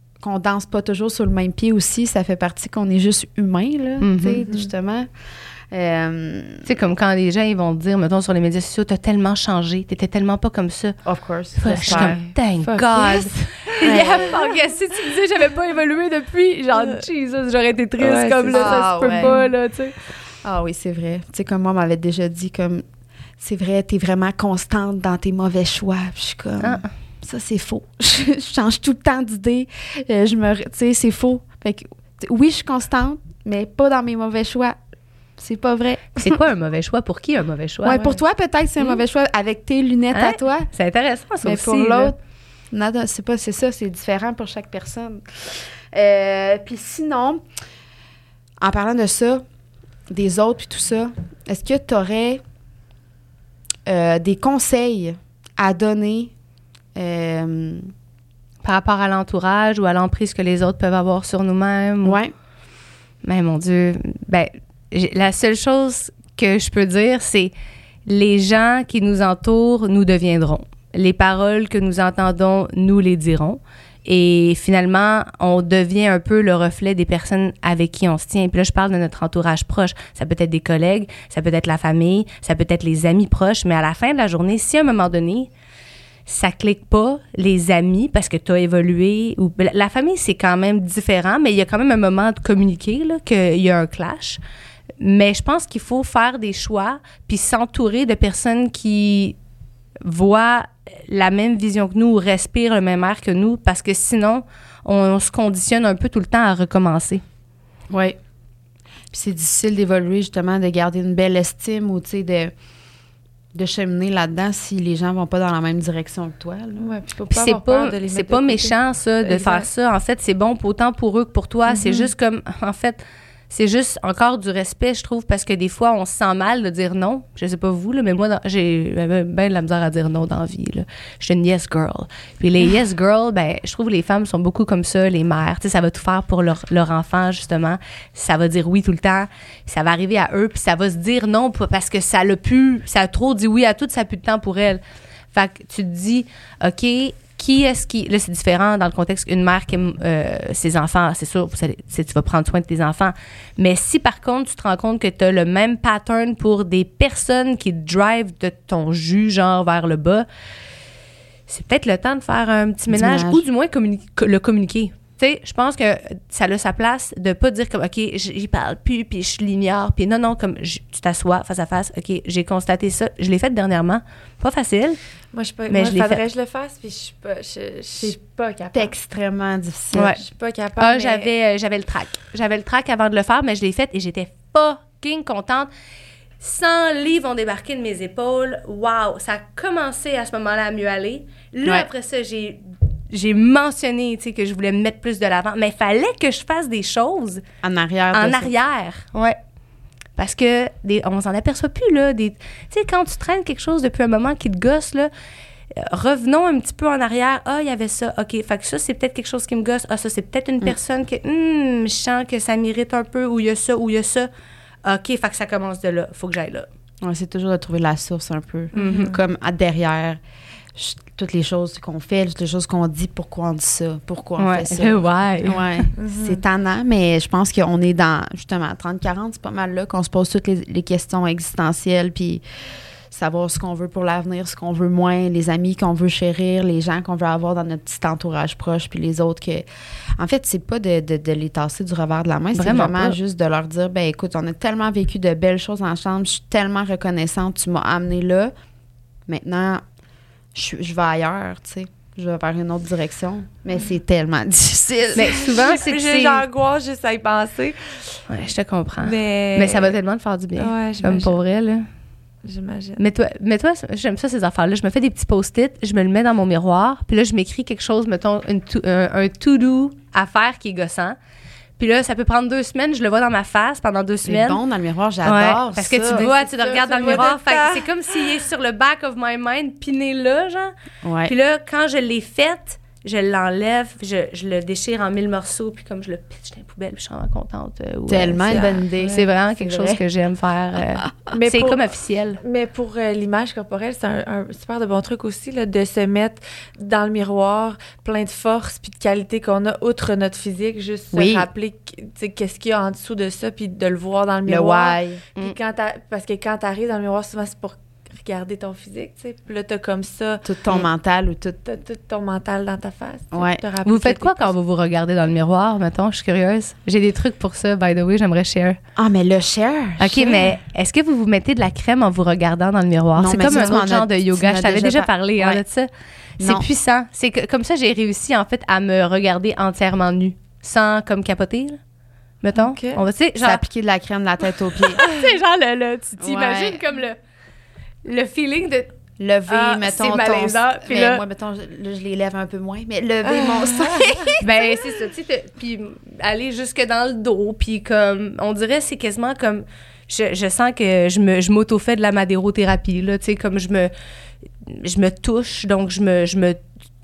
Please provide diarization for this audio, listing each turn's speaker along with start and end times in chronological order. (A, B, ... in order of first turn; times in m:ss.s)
0:00.2-0:05.1 A
0:04.0-0:04.4 B
0:04.4-0:04.7 C
0:05.7-0:06.6 A
0:06.6-0:11.0 B
0:11.0-0:12.2 A
0:11.6-0:19.9 B
0:11.8-0:14.4 C
0:13.8-0:14.4 A
0:18.0-0:19.5 C
0:18.5-0:19.3 A
0:20.4-0:22.8 A
0:23.4-0:34.8 A
0:26.6-0:26.9 B
0:35.4-0:36.4 A
0:36.2-0:38.1 B
0:37.8-0:40.7 A
0:37.9-0:38.2 C
0:40.1-0:42.1 B
0:41.4-0:42.2 A
0:42.7-0:47.4 A
0:48.6-0:49.4 A
0:50.1-0:52.4 A
0:53.8-0:56.3 A
0:56.9-0:57.9 A
0:58.6-1:02.2 B
1:02.0-1:02.3 A
1:03.2-1:07.5 B
1:08.0-1:25.5 B
1:26.3-1:34.4 B
1:35.0-1:39.4 B
1:40.0-1:47.2 B
1:47.9-1:48.2 A
1:49.1-1:52.5 A
1:53.5-1:56.9 A
1:56.8-1:59.7 C
1:57.3-2:24.8 B
2:01.7-2:02.1 C
2:25.3-2:40.2 B
2:41.5-2:55.0 B
2:42.9-2:43.4 A
2:55.3-2:58.9 C
2:55.7-2:56.2 B
2:58.7-3:00.2 A
2:59.9-3:00.2 B
3:00.2-3:01.3 C
3:00.8-3:05.7 B
3:06.4-3:17.4 B
3:17.6-3:18.5 A
3:18.1-3:19.4 B
3:20.2-3:25.1 B
3:25.7-3:34.3 B
3:34.8-3:36.7 B
3:37.0-3:40.2 A
3:38.7-3:39.2 C
3:38.8-3:39.1 B
3:40.7-3:52.4 A
3:44.4-3:45.6 B
3:46.0-3:46.4 C
3:53.1-3:59.6 A
4:00.2-4:08.5 A
4:02.5-4:03.2 B
4:09.3-4:09.8 A
4:10.5-4:15.5 A
4:15.2-4:16.4 B
4:15.2-4:18.2 C
4:18.3-4:21.9 B
4:19.0-4:19.9 C
4:20.6-4:21.4 C
4:22.4-4:23.0 C
4:23.0-4:31.2 B
4:31.8-4:34.6 B
4:34.2-4:36.2 A
4:35.2-4:40.7 B
4:36.1-4:38.3 C
4:41.0-4:41.3 A
4:41.2-4:52.4 B
4:48.1-4:50.0 A
4:48.5-4:49.2 C
4:51.3-4:51.9 C
4:52.4-5:10.4 C
5:01.1-5:01.5 A
5:04.4-5:05.2 A
5:10.4-5:11.6 A
5:11.6-5:14.5 C
5:13.3-5:13.6 A
5:13.8-5:18.8 B
5:19.0-5:20.5 A
5:20.0-5:25.9 B
5:23.2-5:25.6 A
5:26.4-5:26.7 A
5:26.4-5:31.8 B
5:32.4-5:33.6 B
5:32.5-5:33.0 C
5:33.4-5:35.0 A
5:34.9-5:37.2 B
5:36.2-5:36.8 A
5:38.0-5:38.9 B
5:39.2-5:44.8 A
5:39.5-5:41.2 B
5:43.2-5:44.3 C
5:44.4-5:53.9 B
5:54.6-5:56.6 B